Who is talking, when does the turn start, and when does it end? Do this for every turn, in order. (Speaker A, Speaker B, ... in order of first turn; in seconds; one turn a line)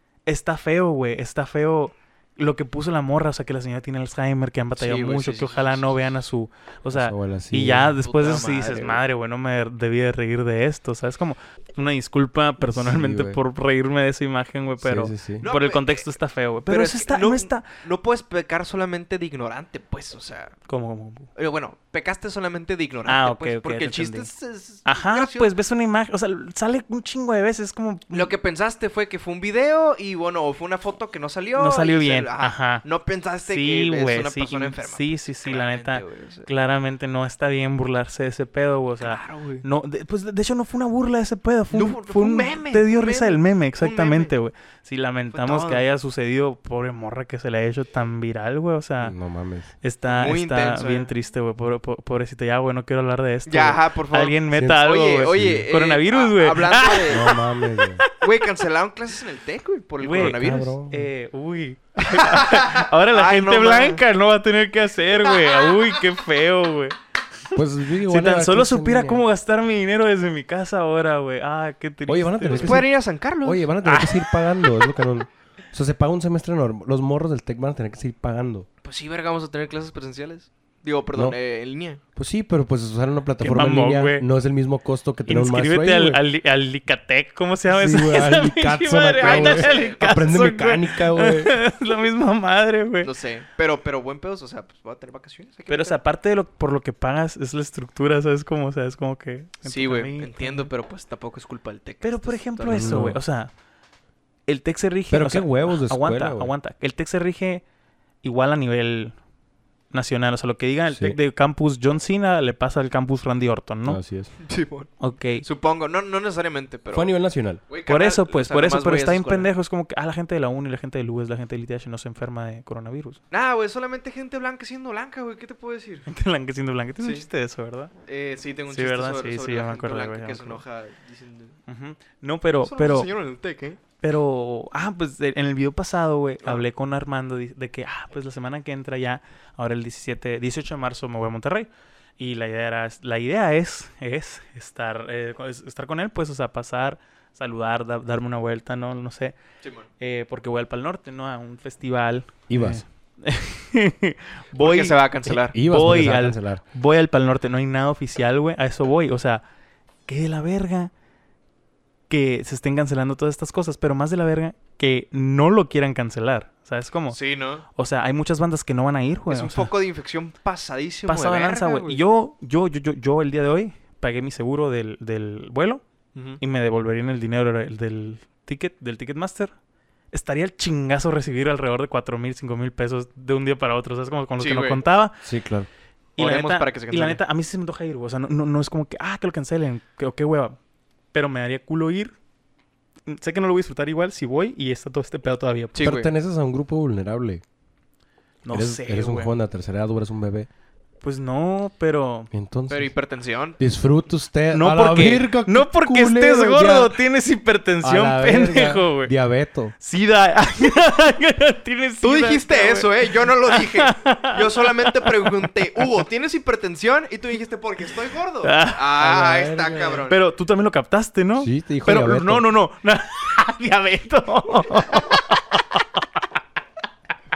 Speaker A: 0.3-17.7
Speaker B: 4.8-5.8
Speaker C: 6.9-8.0
Speaker B: 8.0-9.0
Speaker C: 12.6-13.4
Speaker C: 14.8-15.5
Speaker B: 15.4-16.1
Speaker B: 16.7-20.6
Speaker A: 20.7-21.3
Speaker B: 21.4-25.5
Speaker A: 23.1-24.3
Speaker A: 24.9-28.3
Speaker B: 28.1-36.5
Speaker A: 31.6-32.8
Speaker A: 33.5-49.1
Speaker B: 39.0-39.6
Speaker B: 41.7-44.3
Speaker B: 45.3-45.9
Speaker C: 49.0-49.7
Speaker A: 49.8-57.4
Speaker B: 50.1-51.1
Speaker B: 53.5-57.4
Speaker C: 54.5-54.8
Speaker C: 55.3-55.7
Speaker C: 57.1-58.0
Speaker B: 58.2-60.8
Speaker A: 60.0-67.0
Speaker C: 60.2-61.1
Speaker B: 62.0-64.0
Speaker B: 65.3-65.8
Speaker C: 67.5-69.2
Speaker A: 68.1-72.8
Speaker C: 72.1-72.9
Speaker B: 72.5-73.6
Speaker C: 73.4-78.7
Speaker A: 73.8-74.8
Speaker B: 78.8-82.0
Speaker C: 82.2-86.2
Speaker A: 83.4-84.3
Speaker A: 85.3-93.1
Speaker C: 87.7-91.6
Speaker B: 89.2-90.2
Speaker B: 93.0-96.0
Speaker A: 95.7-100.7
Speaker B: 99.7-103.0
Speaker A: 102.0-103.5
Speaker C: 102.7-103.2
Speaker A: 104.5-107.6
Speaker C: 105.1-106.5
Speaker A: 108.2-109.2
Speaker A: 109.9-114.0
Speaker C: 110.9-111.2
Speaker C: 113.8-114.3
Speaker B: 114.4-117.1
Speaker A: 115.0-115.5
Speaker C: 116.9-117.6
Speaker B: 117.7-119.5
Speaker A: 117.9-123.2
Speaker B: 123.3-126.1
Speaker A: 126.1-127.9
Speaker B: 128.0-131.6
Speaker A: 128.7-130.6
Speaker A: 131.7-133.1
Speaker B: 132.6-133.8
Speaker A: 134.0-149.4
Speaker B: 149.6-149.9
Speaker A: 150.0-159.4
Speaker C: 152.5-152.8
Speaker B: 154.6-155.6
Speaker C: 155.5-156.6
Speaker A: 160.1-160.9
Speaker A: 162.1-167.2
Speaker B: 167.1-167.7
Speaker A: 167.8-169.7
Speaker B: 169.3-172.0
Speaker A: 171.1-175.8
Speaker B: 176.2-176.4
Speaker A: 176.4-179.5
Speaker A: 180.1-185.2
Speaker B: 184.4-184.8
Speaker C: 185.2-185.7
Speaker B: 186.2-187.2
Speaker A: 186.2-190.6
Speaker A: 191.1-192.2
Speaker A: 193.1-195.9
Speaker B: 195.8-196.1
Speaker C: 195.8-197.4
Speaker A: 198.4-199.3
Speaker C: 198.5-200.5
Speaker A: 201.0-202.3
Speaker C: 202.3-202.9
Speaker B: 202.7-203.6
Speaker C: 203.6-207.0
Speaker A: 204.5-209.1
Speaker C: 207.8-209.8
Speaker A: 209.8-215.5
Speaker B: 212.0-220.2
Speaker A: 218.4-218.9
Speaker C: 219.0-220.0
Speaker A: 220.1-226.0
Speaker C: 221.4-222.5